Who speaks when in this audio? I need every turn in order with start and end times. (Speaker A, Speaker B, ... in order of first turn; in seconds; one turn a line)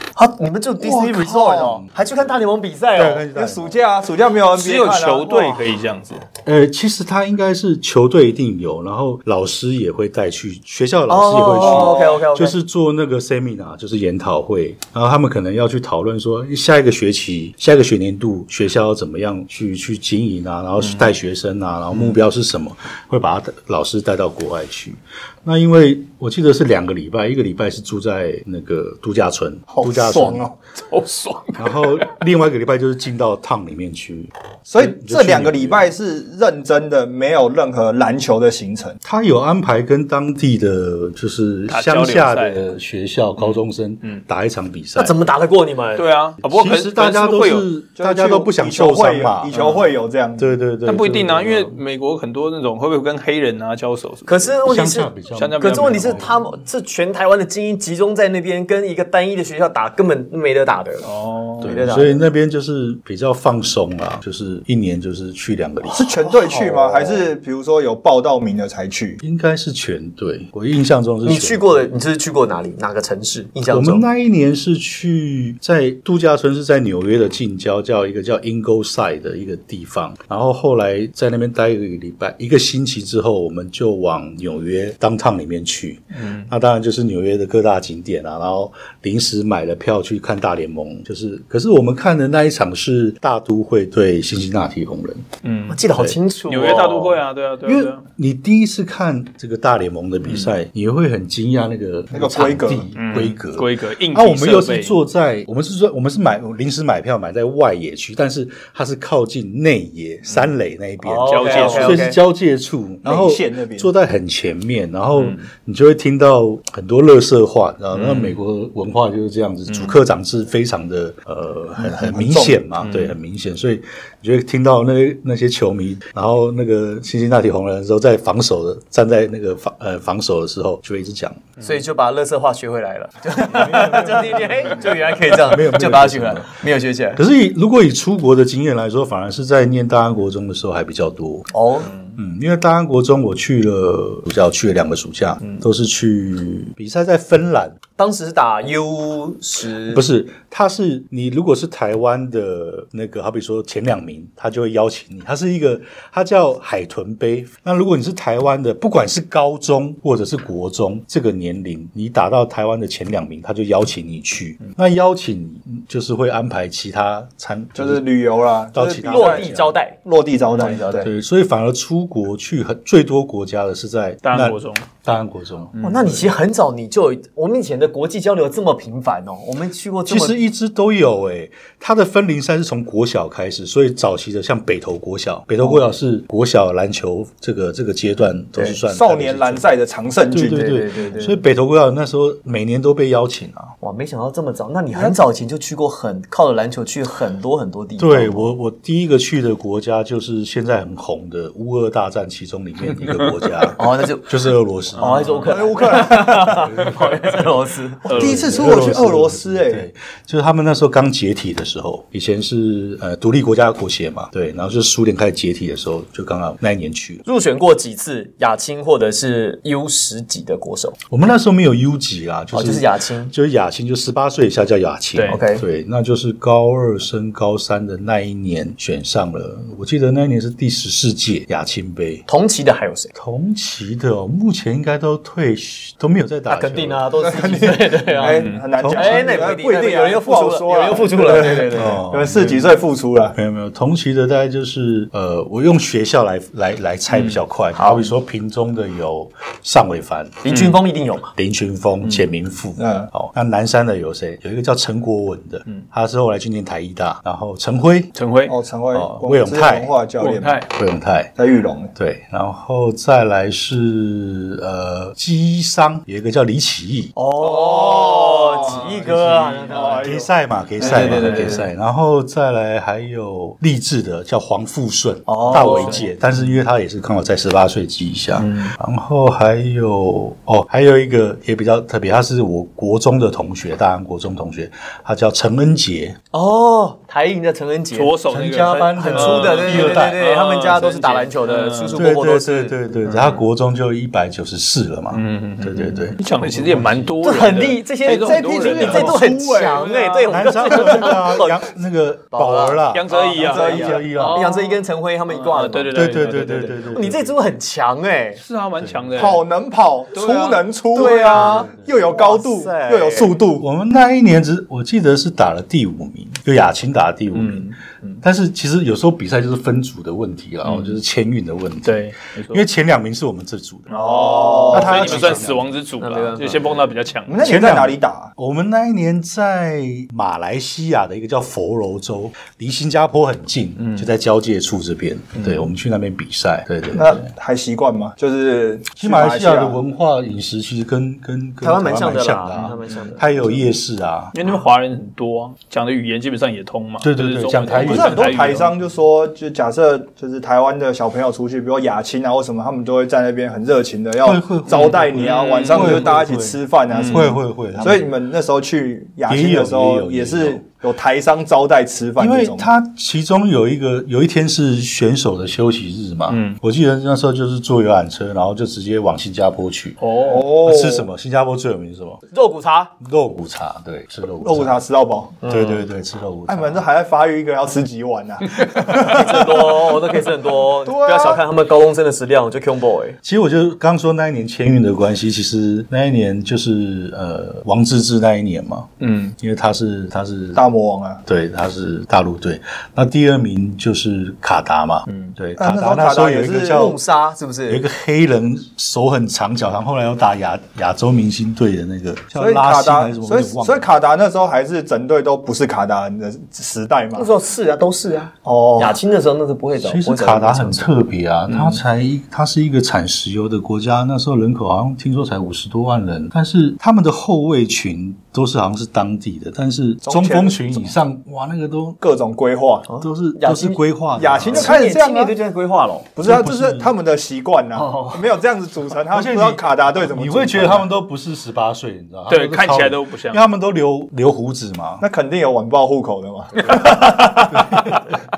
Speaker A: 0.1-3.2
Speaker B: 0.8-1.8
Speaker C: 3.0-3.8
Speaker B: 3.0-5.6
Speaker D: 4.5-6.3
Speaker C: 6.5-30.5
Speaker A: 11.1-12.6
Speaker B: 11.6-12.2
Speaker D: 20.8-21.1
Speaker B: 29.7-30.6
Speaker D: 30.9-32.2
Speaker C: 31.6-35.9
Speaker B: 34.6-39.0
Speaker C: 39.0-45.1
Speaker D: 41.7-42.7
Speaker D: 43.4-44.2
Speaker A: 45.0-46.1
Speaker D: 46.0-47.7
Speaker C: 46.4-49.5
Speaker B: 48.0-50.5
Speaker D: 49.5-49.9
Speaker C: 50.4-51.8
Speaker D: 50.9-54.6
Speaker A: 54.3-61.1
Speaker C: 54.6-56.4
Speaker D: 55.3-56.3
Speaker D: 61.0-61.7
Speaker A: 61.6-62.2
Speaker C: 61.6-66.1
Speaker B: 65.9-69.2
Speaker A: 65.9-67.3
Speaker C: 69.2-71.7
Speaker A: 71.2-74.0
Speaker C: 73.7-95.3
Speaker D: 86.2-86.5
Speaker D: 95.4-95.8
Speaker A: 95.7-97.2
Speaker D: 96.5-98.1
Speaker C: 97.6-131.5
Speaker B: 102.1-102.9
Speaker D: 103.0-105.0
Speaker A: 111.0-112.2
Speaker D: 111.3-112.1
Speaker B: 113.0-113.9
Speaker D: 115.2-115.5
Speaker D: 117.9-118.4
Speaker D: 119.7-120.0
Speaker B: 121.8-122.6
Speaker D: 122.8-123.2
Speaker A: 131.6-137.2
Speaker C: 133.5-136.6
Speaker C: 137.2-141.5
Speaker A: 141.5-141.9
Speaker C: 142.2-147.8
Speaker A: 148.0-150.1
Speaker C: 149.8-168.1
Speaker B: 167.8-171.1
Speaker C: 168.7-169.8
Speaker A: 169.0-171.1
Speaker C: 170.9-175.8
Speaker D: 174.2-174.9
Speaker D: 175.7-176.3
Speaker A: 175.8-180.4
Speaker C: 180.1-189.7
Speaker B: 188.9-190.8
Speaker C: 190.3-193.7
Speaker A: 190.5-191.4
Speaker A: 193.8-198.5
Speaker C: 198.0-205.5
Speaker D: 203.0-203.5
Speaker A: 203.8-208.4
Speaker D: 205.0-205.6
Speaker B: 205.5-206.7
Speaker C: 206.6-207.1
Speaker D: 208.1-208.7
Speaker B: 208.1-209.9
Speaker C: 208.1-217.2
Speaker A: 217.2-221.0
Speaker C: 221.1-232.2
Speaker A: 222.5-223.3
Speaker D: 225.1-225.4
Speaker A: 225.3-225.6
Speaker A: 232.3-233.1
Speaker C: 233.1-237.1
Speaker A: 236.5-242.0
Speaker B: 237.2-243.4
Speaker D: 238.2-238.6
Speaker C: 238.7-239.3
Speaker C: 241.7-242.6
Speaker C: 243.3-250.4
Speaker D: 247.1-247.4
Speaker A: 247.8-248.1
Speaker A: 250.4-251.3
Speaker D: 250.5-250.8
Speaker C: 251.3-258.1
Speaker D: 252.0-252.3
Speaker B: 252.8-253.1
Speaker D: 258.1-258.6
Speaker B: 258.5-260.6
Speaker C: 258.9-259.9
Speaker D: 260.2-260.7
Speaker C: 260.7-261.3
Speaker B: 261.4-261.9
Speaker C: 261.9-267.1
Speaker A: 267.1-270.2
Speaker B: 267.4-270.3
Speaker C: 270.0-286.2
Speaker A: 270.8-271.6
Speaker D: 270.8-271.7
Speaker A: 275.3-276.1
Speaker D: 275.4-276.5
Speaker D: 278.5-278.7
Speaker A: 286.3-292.8
Speaker D: 287.9-292.0
Speaker C: 288.3-290.2
Speaker C: 291.9-297.1
Speaker D: 293.1-293.4
Speaker D: 295.1-301.1
Speaker A: 297.2-301.6
Speaker B: 298.1-299.8
Speaker C: 298.8-304.4
Speaker A: 302.3-306.1
Speaker D: 302.9-307.2
Speaker B: 303.1-304.1
Speaker C: 305.9-307.4
Speaker A: 306.9-308.4
Speaker D: 308.4-309.4
Speaker C: 308.8-309.3
Speaker B: 309.1-313.6
Speaker D: 310.1-310.6
Speaker A: 310.9-313.4
Speaker C: 311.3-311.9
Speaker C: 313.6-324.0
Speaker D: 317.3-318.2
Speaker D: 320.6-321.0
Speaker D: 321.8-322.6
Speaker D: 323.9-327.5
Speaker B: 323.9-325.1
Speaker A: 324.0-326.9
Speaker C: 324.7-325.7
Speaker B: 327.3-328.3
Speaker C: 327.4-337.3
Speaker D: 333.8-334.1
Speaker B: 336.9-339.8
Speaker C: 338.9-344.4
Speaker A: 341.6-343.3
Speaker D: 342.5-343.1
Speaker D: 344.3-348.7
Speaker C: 347.0-348.5
Speaker B: 347.7-362.7
Speaker C: 354.2-358.1
Speaker D: 354.7-356.2
Speaker D: 356.9-357.4
Speaker C: 359.3-360.6
Speaker C: 362.2-372.2
Speaker D: 366.3-366.6
Speaker D: 370.0-370.5
Speaker B: 370.2-371.1
Speaker A: 372.3-372.9
Speaker C: 373.0-374.8
Speaker B: 374.4-375.4
Speaker C: 375.4-376.8
Speaker A: 375.4-375.8
Speaker B: 376.5-380.0
Speaker A: 378.8-383.2
Speaker B: 380.9-381.4
Speaker C: 383.2-390.6
Speaker D: 389.0-389.4
Speaker B: 390.6-391.2
Speaker C: 391.3-397.0
Speaker D: 395.1-395.4
Speaker B: 395.6-396.9
Speaker A: 396.7-397.8
Speaker C: 397.7-403.9
Speaker B: 402.4-407.3
Speaker A: 407.1-410.9
Speaker B: 408.4-409.0
Speaker C: 409.8-422.0
Speaker D: 411.5-411.8
Speaker B: 420.0-420.9
Speaker B: 422.0-422.9
Speaker A: 422.9-423.8
Speaker C: 423.0-424.8
Speaker B: 424.2-425.4
Speaker A: 424.5-426.1
Speaker B: 426.1-430.9
Speaker C: 426.2-426.9
Speaker A: 427.8-428.4
Speaker C: 429.1-435.0
Speaker D: 432.3-433.4
Speaker B: 435.0-437.5
Speaker D: 436.7-437.4
Speaker C: 437.5-438.0